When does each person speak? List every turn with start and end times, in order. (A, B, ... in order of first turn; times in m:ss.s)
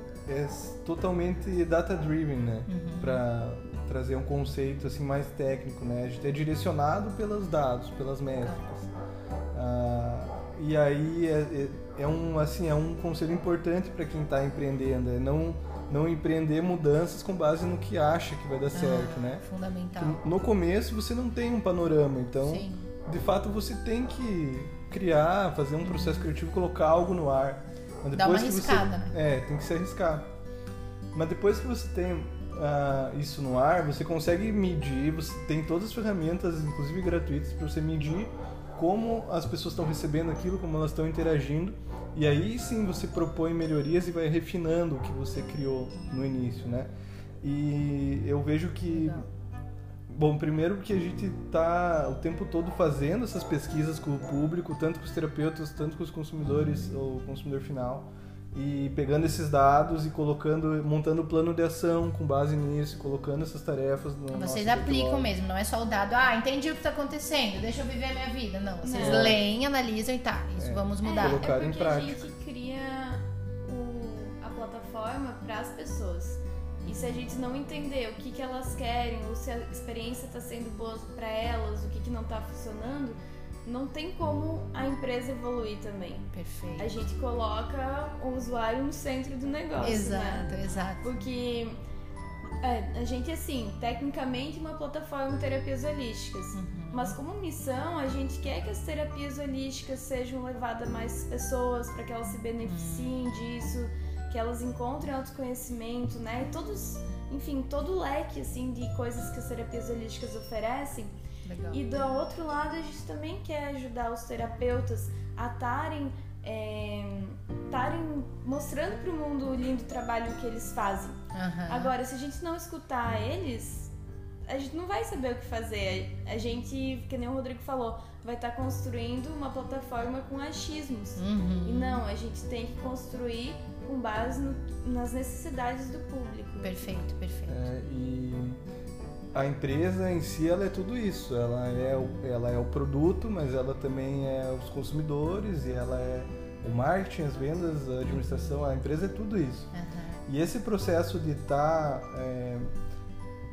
0:00.3-0:08.9 A
0:02.7-0:03.2 B
0:09.5-0:19.4 A
0:18.7-0:20.2 B
0:20.0-0:30.3 A
0:22.4-0:22.8 B
0:25.9-0:26.2 B
0:28.1-0:29.1 B
0:31.1-0:46.9 A
0:47.4-0:49.2 A
0:48.9-0:49.3 B
0:50.1-1:05.3 A
1:04.3-1:11.5 B
1:08.8-1:09.3 C
1:09.0-1:09.4 A
1:10.6-1:12.2 A
1:11.0-1:30.5 C
1:26.3-1:26.9 B
1:29.8-1:31.0 B
1:31.0-1:31.8 C
1:32.6-1:51.1 C
1:36.5-1:37.2 B
1:42.6-1:43.2 B
1:51.4-1:51.8 B
1:51.7-2:01.2 C
2:01.3-2:01.9 B
2:01.7-2:03.9 C
2:04.5-2:16.8 C
2:11.2-2:12.0 B
2:16.6-2:17.7 B
2:17.5-2:18.6 A
2:19.3-2:29.7 A
2:29.7-2:30.2 B
2:30.3-2:32.7 A